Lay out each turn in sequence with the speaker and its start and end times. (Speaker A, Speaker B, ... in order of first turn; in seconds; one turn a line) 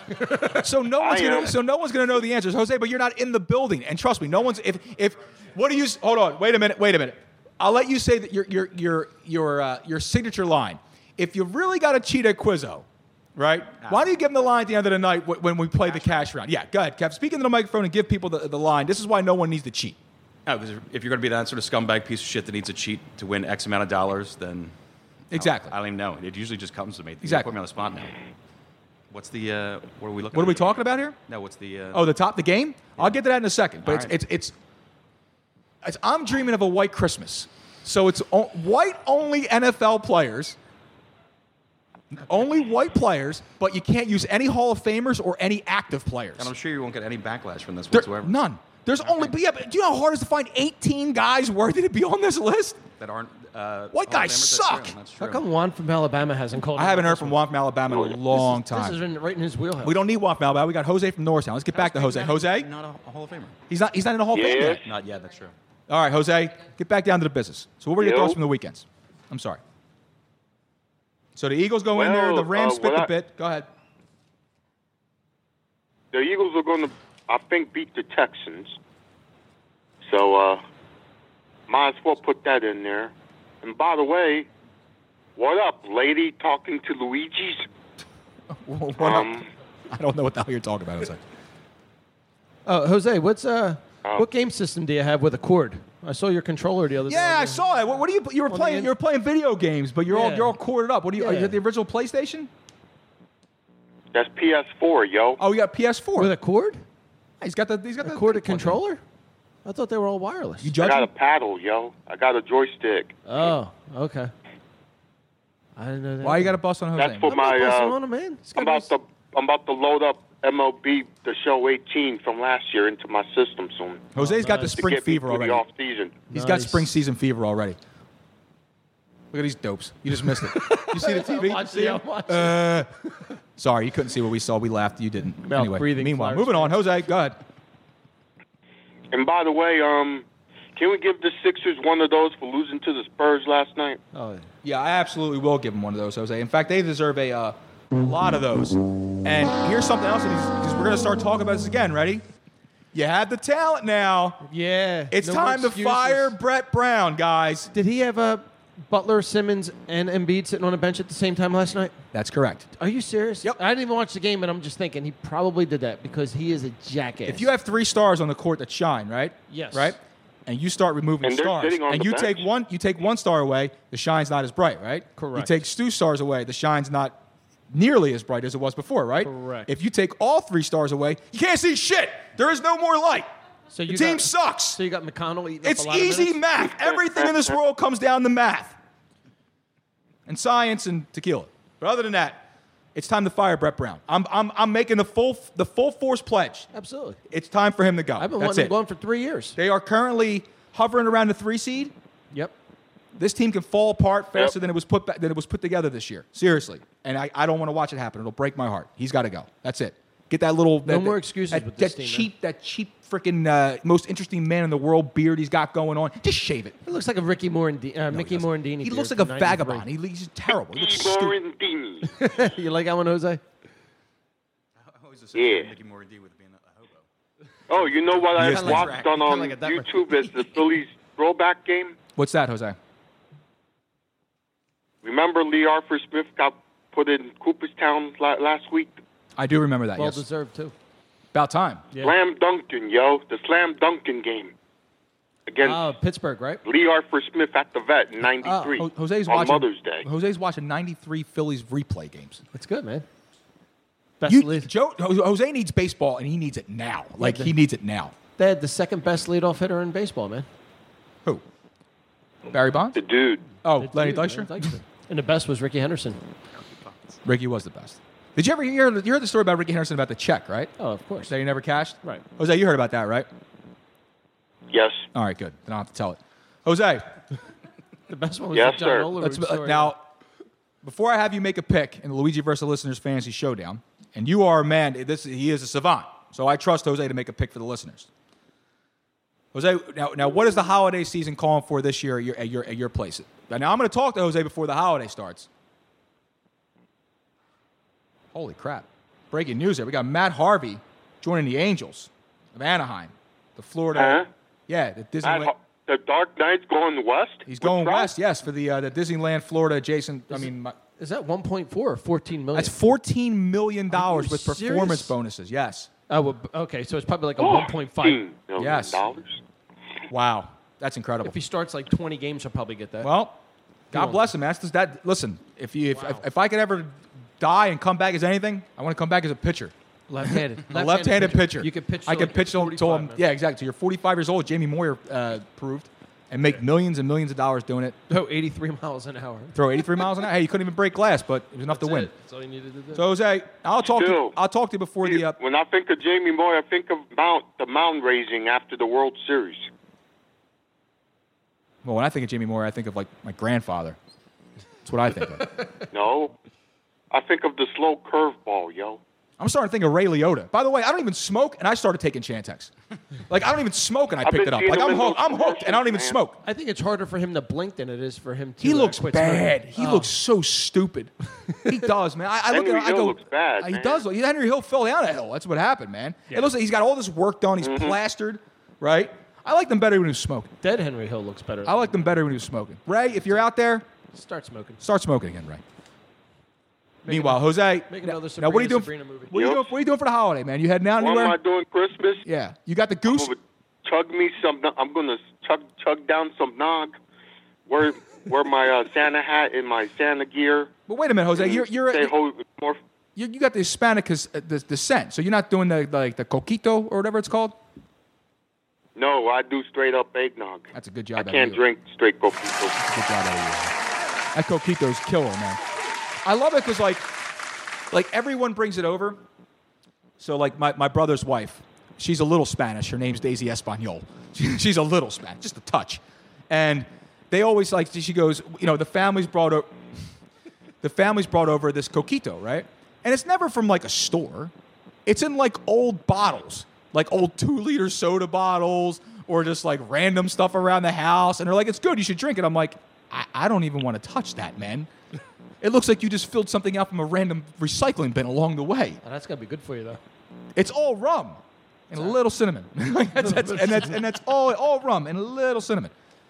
Speaker A: 0.4-20.0
Speaker B: 1.0-1.5
Speaker C: 15.8-16.3
Speaker C: 20.4-24.7
Speaker A: 25.3-25.7
Speaker C: 25.3-28.1
Speaker A: 27.2-27.5
Speaker C: 29.1-32.1
Speaker A: 30.3-31.2
Speaker A: 31.9-34.5
Speaker C: 33.8-34.1
Speaker A: 35.8-40.6
Speaker A: 42.1-46.5
Speaker C: 46.4-48.4
Speaker A: 47.9-52.8
Speaker D: 49.0-49.3
Speaker C: 52.9-55.4
Speaker A: 53.9-54.9
Speaker D: 55.2-57.5
Speaker A: 56.7-59.0
Speaker D: 58.3-60.0
Speaker A: 59.8-62.7
Speaker C: 61.7-63.6
Speaker A: 63.7-64.9
Speaker B: 64.3-64.8
Speaker C: 64.8-65.5
Speaker A: 65.9-69.6
Speaker B: 68.0-68.4
Speaker A: 71.3-73.7
Speaker B: 71.9-73.1
Speaker B: 76.1-78.8
Speaker B: 80.0-80.6
Speaker B: 81.7-84.5
Speaker B: 85.3-87.6
Speaker A: 88.5-91.2
Speaker B: 89.0-89.5
Speaker D: 92.7-97.6
Speaker A: 97.1-102.5
Speaker D: 98.5-98.9
Speaker D: 100.1-100.5
Speaker D: 101.2-101.6
Speaker B: 104.1-105.4
Speaker A: 105.4-106.3
Speaker D: 106.2-106.8
Speaker A: 107.4-108.8
Speaker D: 108.0-109.0
Speaker D: 109.6-110.8
Speaker A: 110.6-111.1
Speaker B: 110.8-113.5
Speaker D: 113.2-114.3
Speaker D: 115.8-116.6
Speaker A: 116.2-117.8
Speaker B: 117.0-117.9
Speaker D: 117.4-118.9
Speaker B: 118.5-124.1
Speaker A: 124.1-125.6
Speaker D: 124.2-124.8
Speaker B: 124.6-126.3
Speaker D: 126.3-126.9
Speaker A: 126.3-127.8
Speaker A: 129.3-132.9
Speaker D: 130.5-133.0
Speaker A: 133.6-137.4
Speaker D: 135.4-137.1
Speaker B: 139.1-144.0
Speaker D: 144.1-144.5
Speaker A: 144.6-152.2
Speaker A: 152.9-154.4
Speaker D: 154.4-156.3
Speaker A: 155.1-157.7
Speaker D: 157.7-161.9
Speaker A: 162.1-162.7
Speaker D: 162.8-167.5
Speaker A: 167.3-183.3
Speaker D: 169.5-169.9
Speaker B: 171.2-172.4
Speaker D: 175.2-175.6
Speaker D: 179.2-179.7
Speaker D: 183.7-186.4
Speaker A: 183.9-184.8
Speaker A: 185.6-188.8
Speaker B: 186.8-187.5
Speaker A: 190.2-196.7
Speaker D: 196.7-197.2
Speaker A: 197.3-198.7
Speaker D: 198.2-199.6
Speaker A: 199.6-201.9
Speaker A: 203.2-216.8
Speaker D: 210.8-212.3
Speaker D: 216.8-219.8
Speaker A: 218.1-221.4
Speaker B: 220.7-222.1
Speaker D: 222.0-223.4
Speaker C: 224.8-227.1
Speaker B: 225.3-225.7
Speaker B: 227.7-232.0
Speaker C: 227.7-229.7
Speaker A: 228.3-228.9
Speaker D: 228.3-230.1
Speaker A: 232.2-232.8
Speaker B: 235.0-239.0
Speaker A: 239.3-240.2
Speaker D: 240.0-240.7
Speaker A: 241.3-241.9
Speaker B: 242.0-244.5
Speaker B: 245.5-245.9
Speaker D: 245.6-246.6
Speaker B: 246.6-250.1
Speaker A: 248.2-252.4
Speaker D: 252.5-253.1
Speaker D: 254.2-254.7
Speaker A: 254.2-258.1
Speaker D: 257.2-257.5
Speaker D: 258.4-260.5
Speaker A: 262.5-263.0
Speaker B: 262.9-263.6
Speaker A: 263.6-264.7
Speaker D: 263.7-266.2
Speaker A: 267.2-270.7
Speaker D: 270.8-271.3
Speaker A: 271.3-273.3
Speaker B: 274.7-275.1
Speaker A: 275.1-277.1
Speaker D: 278.1-279.9
Speaker B: 278.5-279.1
Speaker A: 279.1-280.0
Speaker A: 280.8-288.1
Speaker A: 289.5-295.5
Speaker A: 298.3-305.5
Speaker B: 303.9-304.3
Speaker B: 305.2-308.1
Speaker A: 307.4-310.8
Speaker D: 310.3-312.7
Speaker A: 312.5-315.9
Speaker D: 313.9-315.1
Speaker D: 316.1-318.2
Speaker B: 317.4-319.4
Speaker A: 318.6-319.0
Speaker A: 320.1-321.4
Speaker D: 321.2-323.1
Speaker A: 323.0-323.4
Speaker D: 323.9-324.3
Speaker A: 323.9-338.0
Speaker D: 325.9-326.2
Speaker D: 330.1-333.2
Speaker D: 338.1-339.8
Speaker A: 339.5-342.1
Speaker D: 341.7-343.0
Speaker A: 342.9-345.4
Speaker B: 343.8-344.4
Speaker B: 345.0-349.7
Speaker A: 351.8-354.0
Speaker A: 354.8-355.5
Speaker B: 355.9-356.3
Speaker B: 357.1-359.0
Speaker A: 359.4-362.7
Speaker A: 363.3-366.4
Speaker B: 364.2-366.2
Speaker D: 366.4-370.1
Speaker A: 368.6-380.5
Speaker B: 372.5-374.0
Speaker B: 377.6-377.9
Speaker D: 380.6-382.0
Speaker A: 381.6-383.9
Speaker D: 384.1-384.8
Speaker A: 384.8-385.6
Speaker D: 387.0-389.5
Speaker A: 387.1-391.4
Speaker B: 389.3-389.7
Speaker B: 391.0-392.2
Speaker A: 392.2-393.3
Speaker B: 393.1-396.9
Speaker B: 397.7-400.7
Speaker A: 400.9-402.1
Speaker B: 401.3-402.8
Speaker A: 403.1-407.6
Speaker B: 408.9-412.8
Speaker A: 410.7-411.6
Speaker A: 412.7-413.7
Speaker A: 414.3-415.6
Speaker A: 416.2-417.1
Speaker A: 417.9-419.2
Speaker A: 420.2-429.7
Speaker A: 430.8-434.5
Speaker A: 435.1-444.9
Speaker A: 445.6-449.0
Speaker D: 449.0-450.0
Speaker A: 450.5-455.9
Speaker D: 453.2-454.0